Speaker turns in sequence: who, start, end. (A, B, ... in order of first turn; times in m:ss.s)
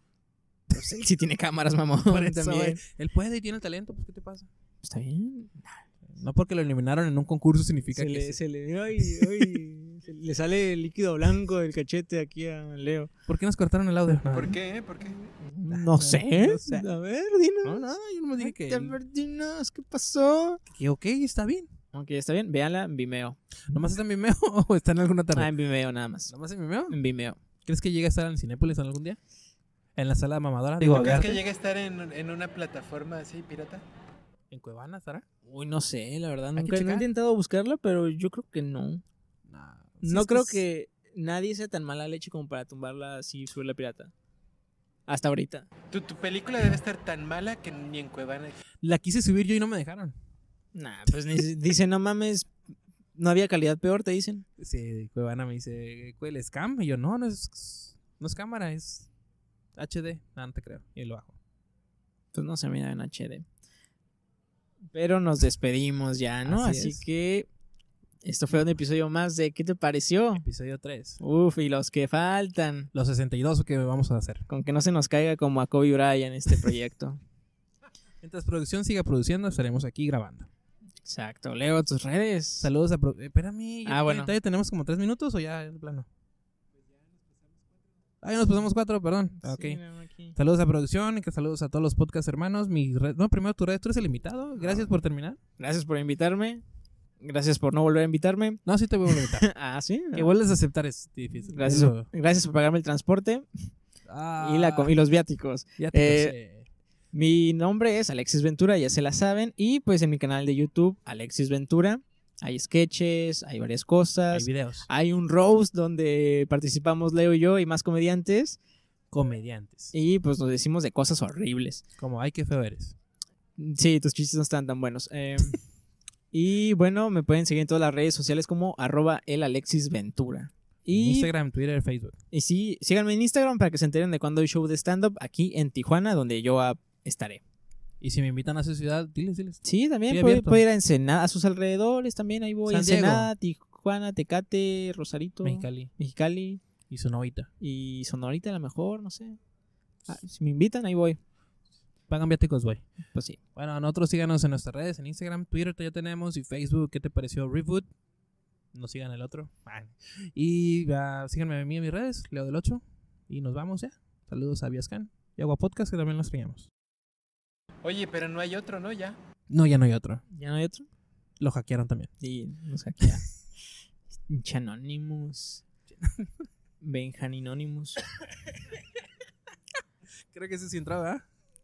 0:00.7-0:02.8 A
0:02.1-0:04.5 B
0:04.8-0:05.8 A
0:06.1-0:08.4 B
0:07.9-0:13.1 A
0:13.3-0:14.6 B
0:14.3-0:15.2 C
0:15.3-0:20.6 A
0:15.7-0:16.8 B
0:17.6-0:19.0 B
0:20.7-0:21.7 B
0:21.9-0:23.4 A
0:23.7-0:25.5 B
0:25.3-0:26.3 A
0:26.3-0:27.0 B
0:26.9-0:27.4 A
0:27.6-0:29.2 B
0:30.0-0:31.4 B
0:30.8-0:33.8 C
0:34.5-0:35.2 B
0:35.4-0:39.0 A
0:36.6-0:37.1 B
0:39.5-0:40.6 B
0:40.0-0:44.1 A
0:45.1-0:45.7 A
0:45.9-0:48.6 C
0:48.8-0:50.1 B
0:50.7-0:52.5 A
0:53.1-0:54.4 A
0:54.6-0:59.1 B
0:59.8-1:01.4 B
1:02.3-1:03.4 A
1:04.9-1:07.5 A
1:06.4-1:07.0 B
1:08.2-1:10.4 A
1:10.3-1:11.2 B
1:11.2-1:12.9 A
1:12.9-1:14.5 B
1:14.5-1:17.2 A
1:18.2-1:20.5 B
1:21.0-1:22.7 A
1:22.6-1:26.1 B
1:23.8-1:24.3 A
1:28.2-1:29.8 B
1:29.4-1:30.3 A
1:30.3-1:35.4 B
1:35.6-1:36.6 A
1:37.2-1:40.3 A
1:38.6-1:39.5 B
1:40.1-1:42.1 B
1:41.5-1:43.6 A
1:44.1-1:44.9 B
1:44.4-1:46.3 A
1:45.8-1:46.7 B
1:47.1-1:58.6 A
1:54.3-1:54.9 B
1:59.1-1:59.9 B
1:59.9-2:01.8 A
2:02.0-2:03.0 B
2:03.6-2:05.6 A
2:06.3-2:11.3 A
2:10.9-2:12.2 B
2:12.3-2:17.4 A
2:18.0-2:20.6 B
2:19.6-2:26.6 A
2:22.7-2:23.3 B
2:25.4-2:25.9 B
2:26.9-2:27.5 B
2:27.6-2:29.4 A
2:30.1-2:31.2 A
2:32.1-2:32.9 B
2:33.1-2:33.4 A
2:33.5-2:37.9 B
2:38.7-2:46.7 B
2:47.8-2:49.2 C
2:49.5-2:50.2 B
2:50.3-2:50.8 A
2:51.4-2:52.1 B
2:52.2-2:53.2 A
2:54.3-2:55.6 A
2:56.0-2:56.3 B
2:56.8-2:58.0 A
3:00.3-3:01.2 B